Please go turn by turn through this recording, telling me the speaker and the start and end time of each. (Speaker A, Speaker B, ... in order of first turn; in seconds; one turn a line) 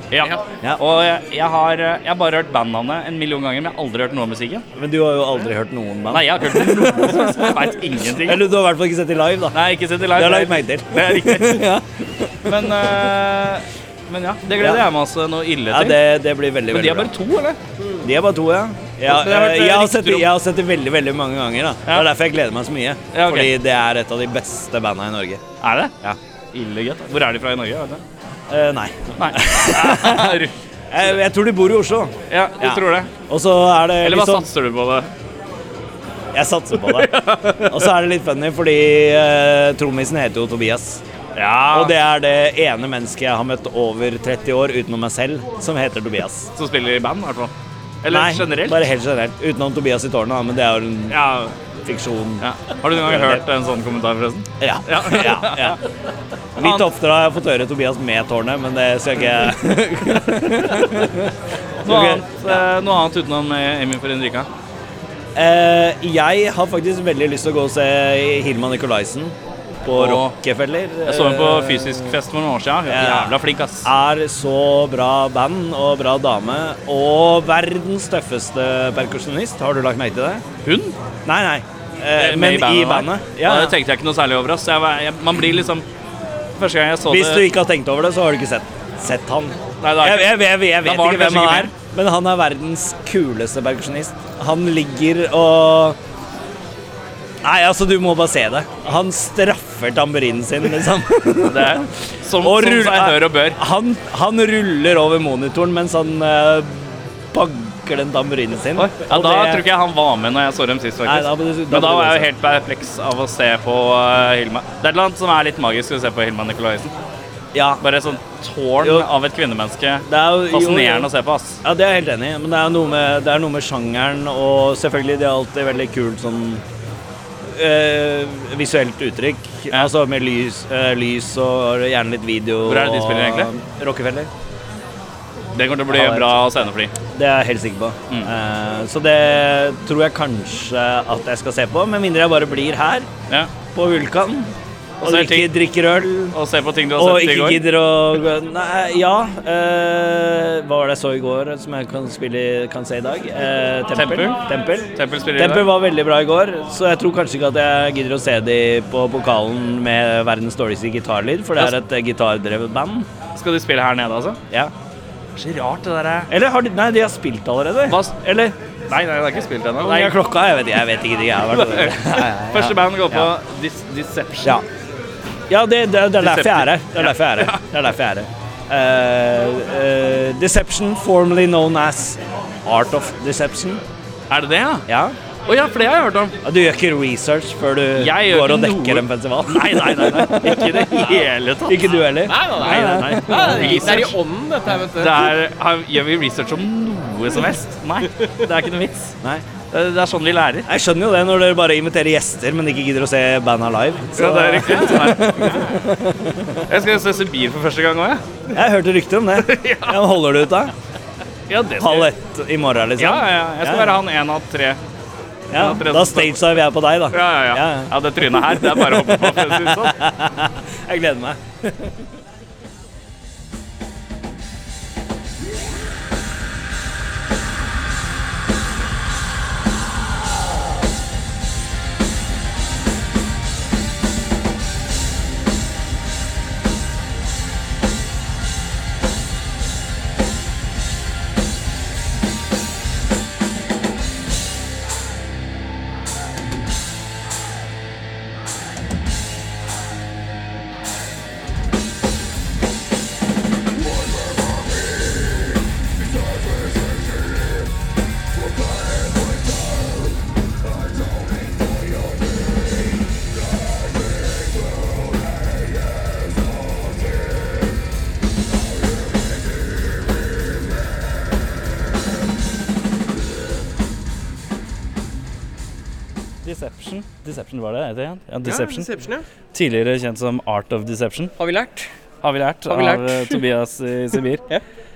Speaker A: 0.1-4.7
Speaker B: 4.7-13.1
Speaker A: 6.1-8.5
Speaker A: 9.5-11.7
Speaker A: 12.4-16.0
Speaker B: 14.6-14.9
Speaker B: 15.7-17.1
Speaker A: 16.7-17.6
Speaker B: 18.0-25.4
Speaker A: 19.0-20.3
Speaker A: 23.1-23.5
Speaker A: 25.6-25.9
Speaker A: 26.5-28.0
Speaker B: 28.5-34.5
Speaker A: 29.2-30.5
Speaker A: 32.3-33.1
Speaker A: 34.0-35.1
Speaker B: 36.3-41.0
Speaker A: 37.0-37.6
Speaker A: 41.4-42.0
Speaker B: 41.7-46.5
Speaker A: 46.5-48.9
Speaker B: 48.1-53.4
Speaker A: 51.1-51.5
Speaker A: 52.4-55.8
Speaker B: 54.6-55.8
Speaker B: 56.5-62.6
Speaker A: 56.6-56.9
Speaker A: 61.8-64.5
Speaker B: 65.3-72.2
Speaker A: 69.9-70.3
Speaker A: 71.0-73.9
Speaker B: 72.9-80.4
Speaker A: 80.6-80.9
Speaker B: 81.2-83.8
Speaker A: 82.2-85.8
Speaker A: 86.6-87.5
Speaker B: 87.1-96.0
Speaker A: 89.8-91.7
Speaker B: 97.4-109.7
Speaker A: 101.4-103.6
Speaker A: 108.8-116.9
Speaker B: 111.0-112.3
Speaker B: 117.5-117.8
Speaker A: 117.8-121.6
Speaker B: 118.8-119.1
Speaker B: 120.1-121.1
Speaker B: 121.6-126.6
Speaker B: 127.4-134.3
Speaker A: 132.7-133.5
Speaker A: 135.5-136.9
Speaker B: 135.9-136.4
Speaker B: 137.1-143.1
Speaker B: 143.7-146.4
Speaker A: 145.0-145.5
Speaker A: 146.3-147.6
Speaker B: 146.9-163.1
Speaker A: 153.9-155.7
Speaker A: 163.3-164.4
Speaker A: 165.3-166.3
Speaker B: 166.3-168.6
Speaker A: 167.9-168.2
Speaker A: 168.9-170.2
Speaker B: 169.8-173.3
Speaker A: 171.5-174.6
Speaker B: 175.5-183.8
Speaker A: 176.2-177.6
Speaker A: 184.3-184.8
Speaker B: 184.9-185.2
Speaker A: 185.4-186.4
Speaker B: 186.4-194.1
Speaker A: 187.9-194.1
Speaker C: 192.2-195.3
Speaker A: 194.9-199.2
Speaker A: 199.7-200.7
Speaker B: 200.7-206.6
Speaker A: 204.2-205.6
Speaker C: 204.7-205.7
Speaker A: 206.7-208.2
Speaker B: 208.5-210.7
Speaker A: 209.4-210.1
Speaker A: 211.5-212.1
Speaker B: 211.8-214.0
Speaker A: 213.0-214.8
Speaker B: 215.5-221.9
Speaker A: 215.5-220.0
Speaker A: 276.4-278.9
Speaker C: 278.4-279.2
Speaker A: 279.5-281.3
Speaker C: 281.4-281.9
Speaker A: 282.2-284.4
Speaker C: 282.7-283.4